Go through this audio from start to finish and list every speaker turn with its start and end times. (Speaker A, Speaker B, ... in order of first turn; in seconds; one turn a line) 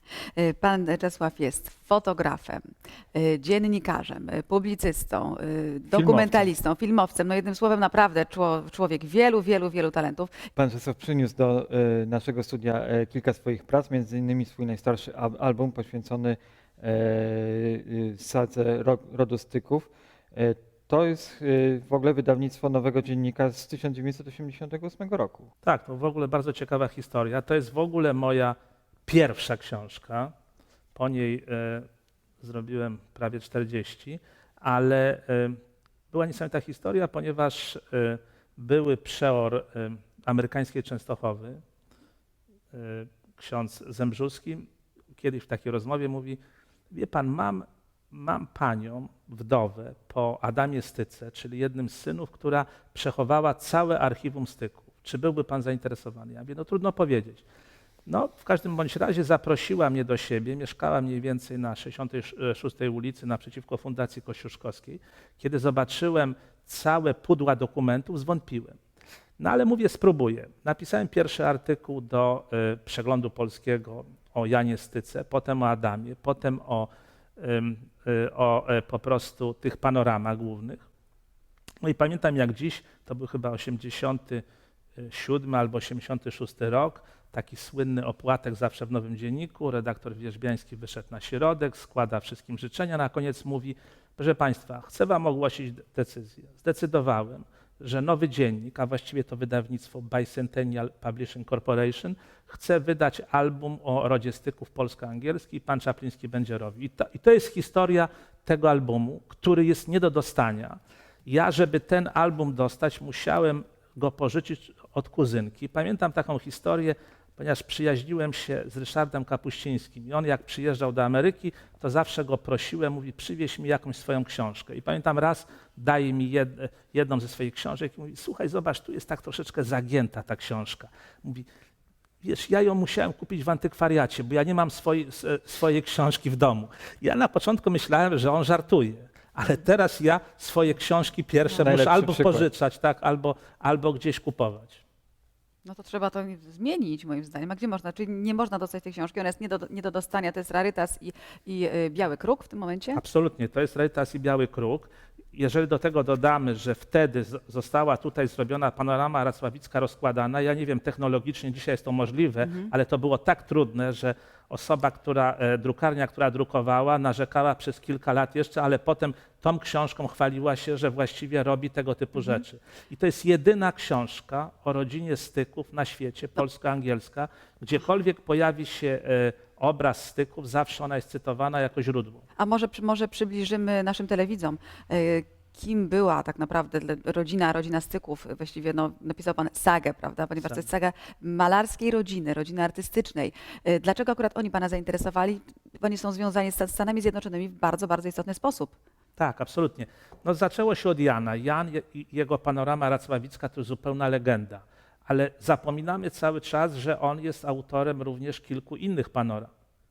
Speaker A: 0.3-2.6
Speaker A: 3.1-10.3
Speaker B: 5.9-6.5
Speaker B: 10.6-25.5
Speaker C: 25.6-28.6
Speaker C: 29.1-30.3
Speaker C: 30.9-31.9
Speaker C: 32.4-35.6
Speaker C: 36.1-41.6
Speaker C: 42.7-46.4
Speaker C: 46.9-57.4
Speaker C: 58.0-68.8
Speaker C: 69.4-80.8
Speaker C: 81.8-84.4
Speaker C: 85.0-131.5
Speaker C: 132.2-144.8
Speaker B: 141.6-142.5
Speaker A: 145.6-153.0
Speaker C: 152.9-182.2
Speaker A: 162.4-162.7
Speaker A: 182.4-198.7
Speaker C: 199.2-209.5